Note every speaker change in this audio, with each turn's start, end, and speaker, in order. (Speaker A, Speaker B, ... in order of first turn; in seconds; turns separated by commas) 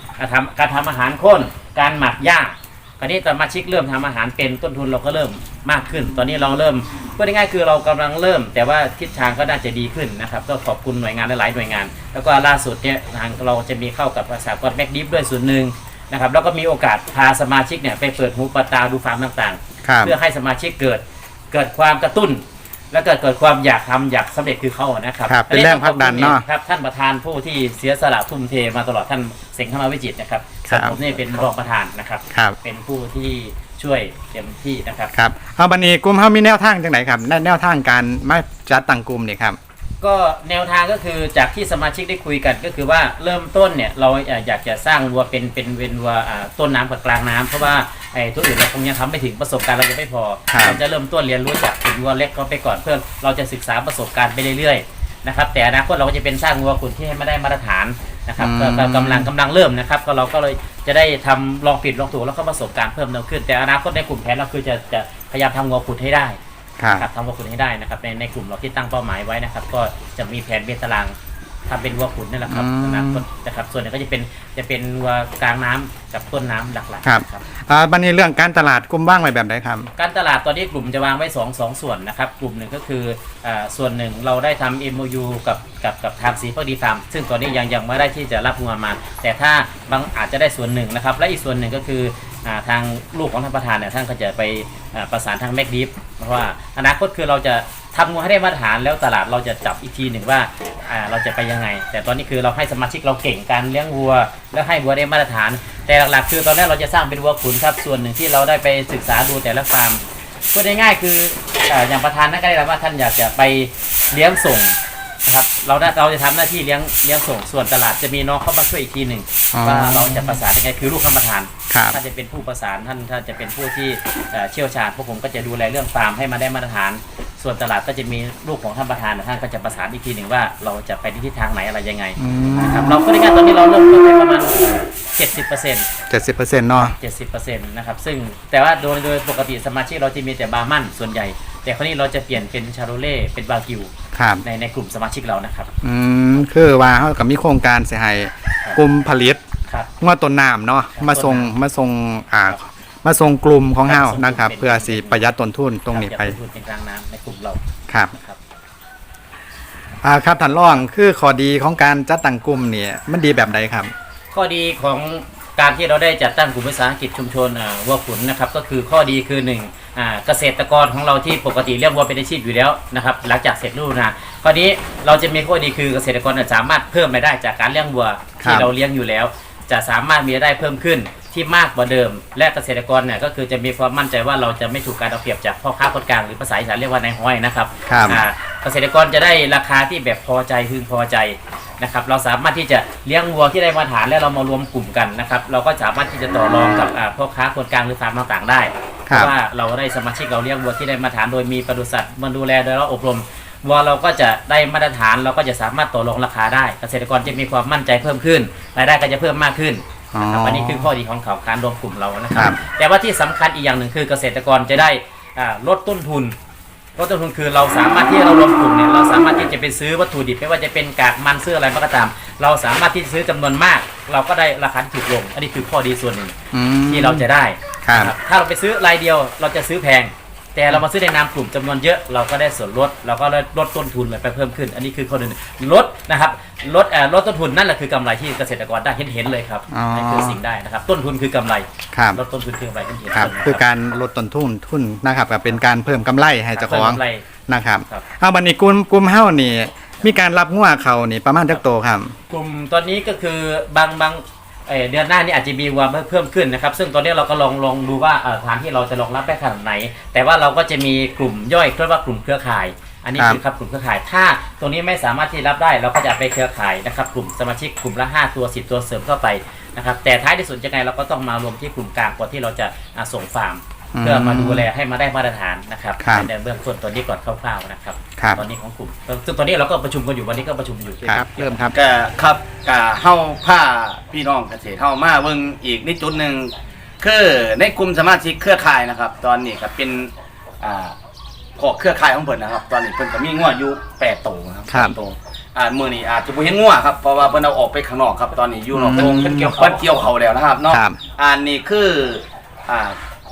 Speaker A: 0.2-35.1, Speaker B: 19.8-20.2, Speaker B: 25.3-26.4, Speaker B: 30.7-31.0, Speaker B: 32.3-32.6, Speaker B: 35.1-39.6, Speaker A: 40.0-71.2, Speaker B: 50.5-50.8, Speaker B: 58.4-59.3, Speaker B: 66.8-67.1, Speaker A: 71.7-77.4, Speaker B: 72.5-73.2, Speaker B: 77.0-79.9, Speaker A: 80.0-135.9, Speaker B: 119.5-120.3, Speaker B: 121.7-122.0, Speaker B: 132.2-133.0, Speaker B: 136.1-137.0, Speaker A: 136.7-143.9, Speaker B: 144.1-144.4, Speaker A: 144.4-145.7, Speaker B: 145.8-149.4, Speaker B: 150.0-156.4, Speaker A: 150.9-151.5, Speaker A: 153.9-155.2, Speaker A: 155.9-157.6, Speaker B: 157.9-158.1, Speaker A: 158.1-158.4, Speaker B: 160.0-163.9, Speaker A: 164.3-216.4, Speaker B: 178.4-178.7, Speaker B: 187.9-188.2, Speaker B: 199.1-199.3, Speaker B: 210.1-210.9, Speaker B: 212.3-212.6, Speaker A: 217.0-226.3, Speaker B: 226.5-227.3, Speaker A: 226.9-243.6, Speaker B: 227.8-228.1, Speaker B: 239.7-240.4, Speaker B: 241.9-242.2, Speaker B: 243.1-252.2, Speaker A: 246.6-247.3, Speaker A: 252.3-281.7, Speaker B: 263.2-263.4, Speaker B: 273.9-274.7, Speaker B: 276.0-276.3, Speaker B: 278.2-278.4, Speaker B: 281.0-281.8, Speaker C: 281.7-290.9, Speaker C: 291.6-303.0, Speaker B: 294.7-295.0, Speaker B: 298.7-299.6, Speaker A: 298.9-300.0, Speaker B: 300.7-301.0